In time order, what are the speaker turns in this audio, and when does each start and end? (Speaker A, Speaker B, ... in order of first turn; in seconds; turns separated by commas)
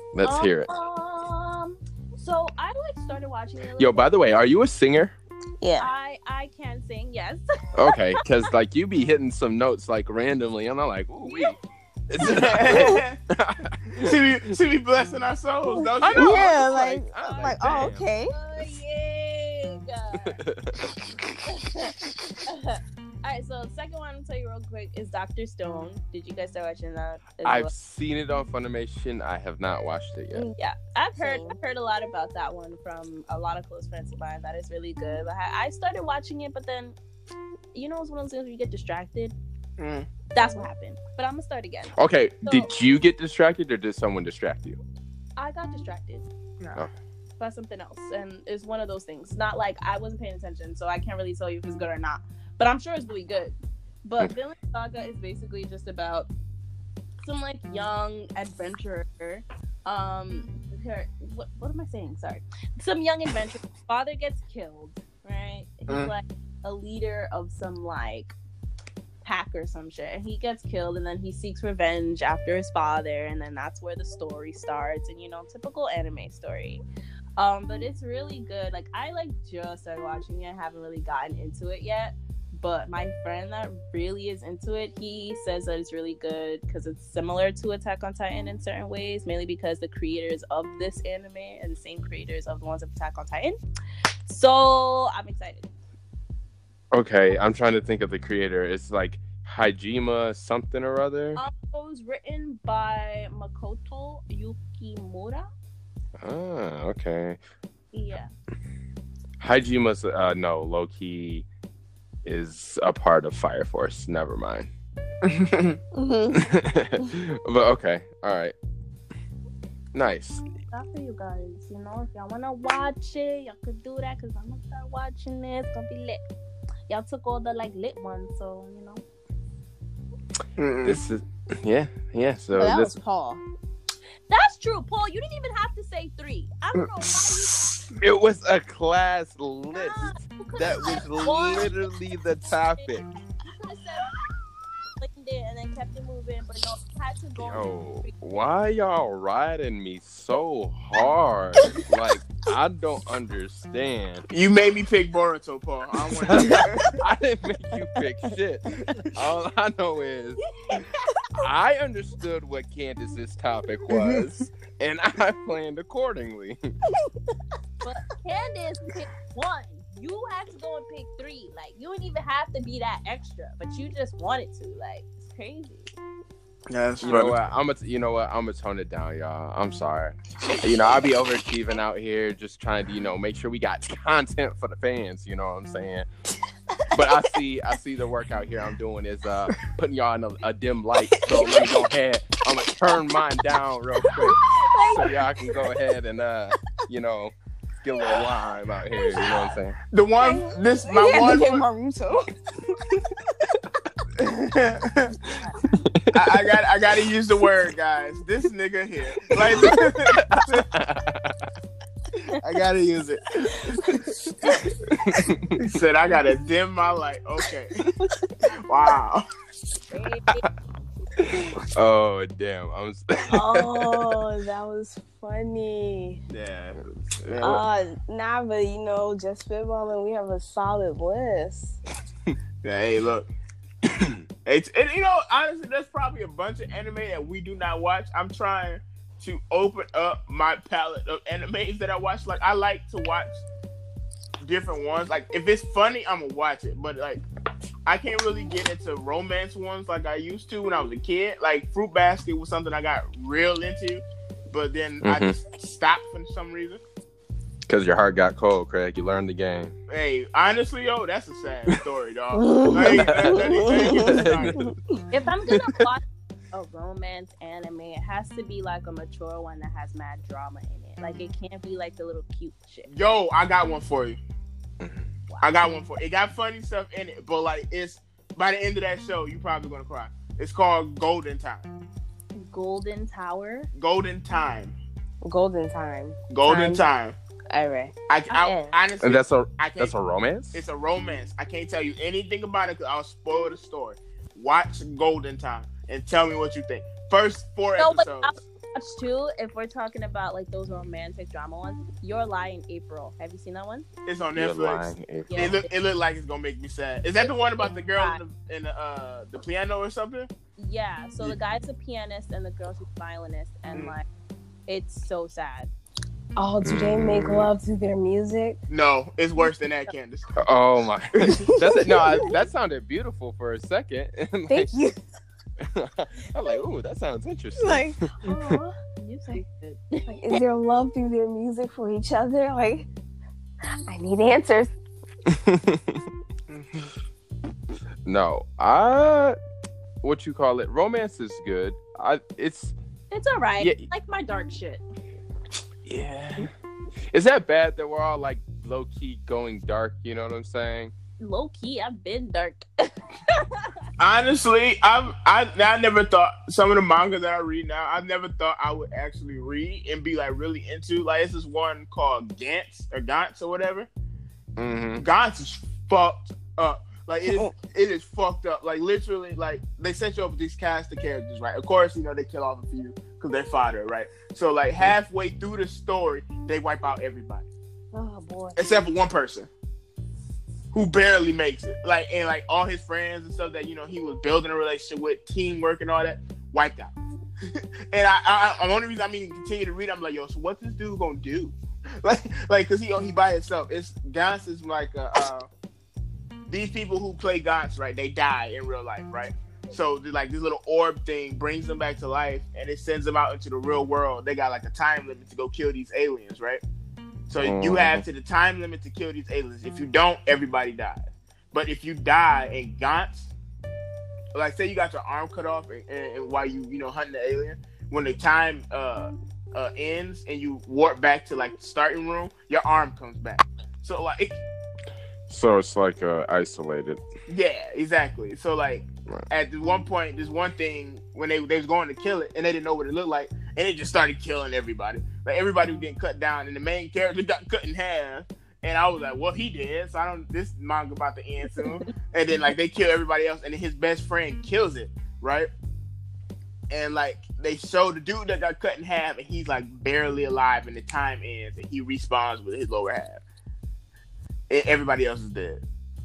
Speaker A: 0.1-0.7, Speaker B: 0.2-4.1, Speaker A: 3.8-5.1, Speaker C: 5.6-5.9, Speaker B: 5.8-8.0, Speaker A: 7.8-11.6, Speaker B: 11.2-11.6, Speaker A: 12.1-14.2, Speaker D: 12.2-13.2, Speaker C: 12.7-13.0, Speaker D: 14.0-16.5, Speaker C: 15.7-18.3, Speaker A: 16.0-18.1, Speaker B: 17.1-20.4, Speaker A: 20.2-21.0, Speaker B: 21.5-27.7, Speaker A: 27.4-30.5, Speaker B: 30.5-37.0, Speaker C: 31.2-31.6, Speaker B: 37.7-39.3, Speaker D: 39.8-40.1, Speaker B: 40.3-42.7, Speaker A: 42.0-44.8, Speaker B: 45.4-46.2, Speaker D: 46.6-46.9, Speaker B: 47.4-56.3, Speaker B: 57.2-68.3, Speaker D: 65.9-66.1, Speaker B: 69.2-76.8, Speaker B: 77.4-93.6, Speaker B: 94.2-95.7, Speaker A: 96.9-101.4, Speaker B: 101.3-105.4, Speaker A: 106.2-107.4, Speaker B: 107.9-108.3, Speaker A: 109.4-111.5, Speaker A: 112.2-114.7, Speaker D: 115.2-115.8, Speaker C: 115.9-116.5, Speaker A: 116.3-118.5, Speaker A: 119.9-120.4, Speaker B: 120.7-126.2, Speaker B: 126.9-129.0, Speaker D: 130.6-131.0, Speaker A: 130.8-132.9, Speaker C: 132.5-133.4, Speaker B: 134.3-137.7, Speaker A: 137.9-143.1, Speaker B: 139.7-141.9, Speaker B: 142.5-142.9, Speaker B: 143.4-144.1, Speaker B: 145.0-148.1, Speaker A: 147.4-154.3, Speaker D: 154.3-156.9, Speaker A: 156.2-160.4, Speaker C: 160.7-161.4, Speaker A: 161.4-166.6, Speaker D: 163.9-164.2, Speaker B: 167.8-175.9, Speaker D: 176.7-177.3, Speaker A: 177.0-186.1, Speaker A: 186.9-199.8, Speaker C: 191.2-191.8, Speaker C: 194.0-195.8, Speaker C: 198.9-199.5, Speaker D: 199.9-201.7, Speaker C: 200.2-202.3, Speaker D: 204.2-205.2, Speaker A: 205.8-206.4, Speaker D: 206.1-210.7, Speaker A: 209.3-211.5, Speaker D: 212.4-214.5, Speaker A: 214.9-215.6, Speaker D: 215.6-217.7, Speaker D: 218.5-219.2, Speaker B: 219.9-220.4, Speaker A: 221.2-224.2, Speaker C: 223.3-226.2, Speaker D: 226.3-227.6, Speaker C: 227.4-231.8, Speaker D: 232.6-233.3, Speaker A: 233.9-234.1, Speaker D: 234.4-243.4, Speaker D: 244.4-247.2, Speaker D: 247.8-256.8, Speaker A: 255.0-255.3, Speaker A: 257.7-259.7, Speaker D: 259.9-264.6, Speaker C: 262.3-265.0, Speaker A: 262.8-264.7, Speaker B: 265.1-272.9, Speaker A: 265.5-265.8, Speaker D: 272.9-274.2, Speaker D: 275.4-281.7, Speaker B: 282.3-283.7, Speaker D: 283.7-284.7, Speaker C: 285.2-286.9, Speaker D: 286.3-287.1, Speaker C: 287.5-288.7, Speaker D: 288.1-289.9, Speaker A: 289.0-290.6, Speaker D: 290.5-298.3, Speaker B: 297.8-303.9, Speaker D: 304.1-310.3, Speaker A: 304.3-305.5, Speaker B: 305.3-305.6, Speaker B: 307.9-308.2, Speaker B: 310.6-314.1, Speaker B: 314.7-315.7, Speaker C: 316.4-318.6, Speaker A: 316.6-317.5, Speaker D: 318.7-320.4, Speaker A: 320.4-324.7, Speaker C: 321.6-322.3, Speaker C: 324.5-325.0, Speaker A: 325.6-328.3, Speaker C: 327.6-328.8, Speaker B: 328.9-330.1, Speaker C: 330.1-332.9, Speaker C: 333.7-334.7, Speaker A: 335.3-336.0, Speaker D: 336.5-336.9, Speaker A: 338.1-339.4, Speaker A: 340.0-342.7, Speaker B: 343.1-344.8, Speaker A: 343.6-343.9, Speaker A: 345.9-346.5, Speaker A: 347.1-350.9, Speaker B: 351.2-353.7, Speaker D: 354.0-363.9, Speaker A: 364.6-365.0, Speaker D: 365.0-377.4, Speaker C: 367.3-367.5, Speaker C: 377.9-378.8, Speaker D: 378.6-379.5, Speaker D: 380.7-386.9, Speaker D: 387.5-395.5, Speaker D: 396.5-406.6, Speaker D: 407.3-413.3, Speaker A: 407.4-408.0, Speaker D: 414.3-424.4, Speaker A: 425.3-427.0, Speaker D: 427.3-445.5, Speaker D: 446.7-453.2, Speaker D: 454.5-455.6